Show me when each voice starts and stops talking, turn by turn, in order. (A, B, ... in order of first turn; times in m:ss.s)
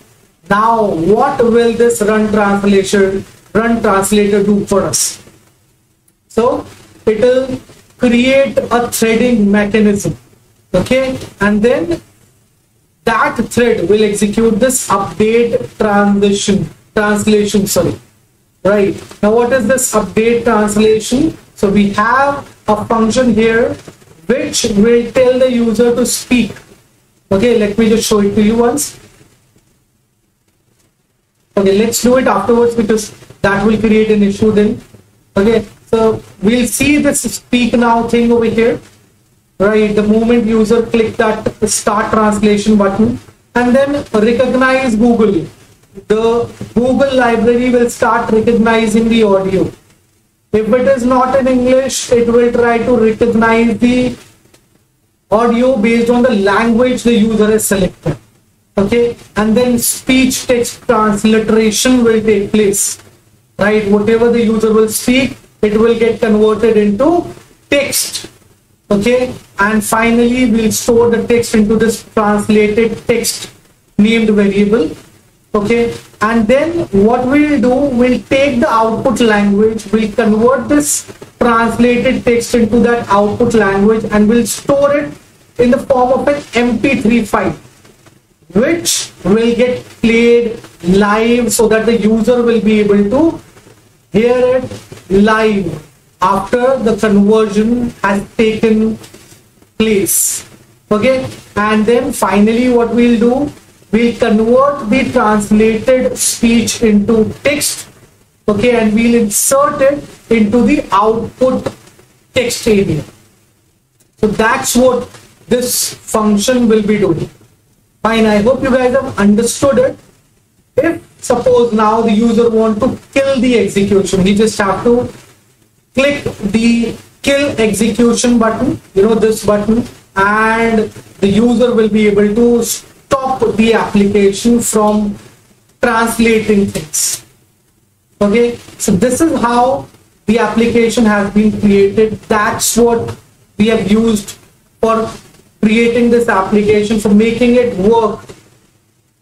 0:00.5-0:05.2 A
0:06.3-0:10.2 A
0:10.7-0:12.0 A
0:13.0-0:18.0 A
0:18.6-0:26.6 A
0:27.3-0:28.9 A
0:31.5-0:34.8 A
0:35.3-0:38.8 A
0:39.6-0:45.5 A
0:46.1-0:49.7 A
0:50.5-0:54.2 A
0:55.3-0:58.2 A
0:58.8-1:03.0 A
1:03.6-1:08.3 A
1:08.9-1:14.9 A
1:15.5-1:27.6 A
1:28.5-1:33.4 A
1:34.1-1:39.0 A
1:39.8-1:47.9 A
1:48.5-1:51.7 A
1:52.3-1:53.1 A
1:54.2-1:57.3 A
1:58.0-2:00.0 A
2:00.8-2:05.1 A
2:05.9-2:15.2 A
2:15.8-2:17.2 A
2:18.2-2:28.3 A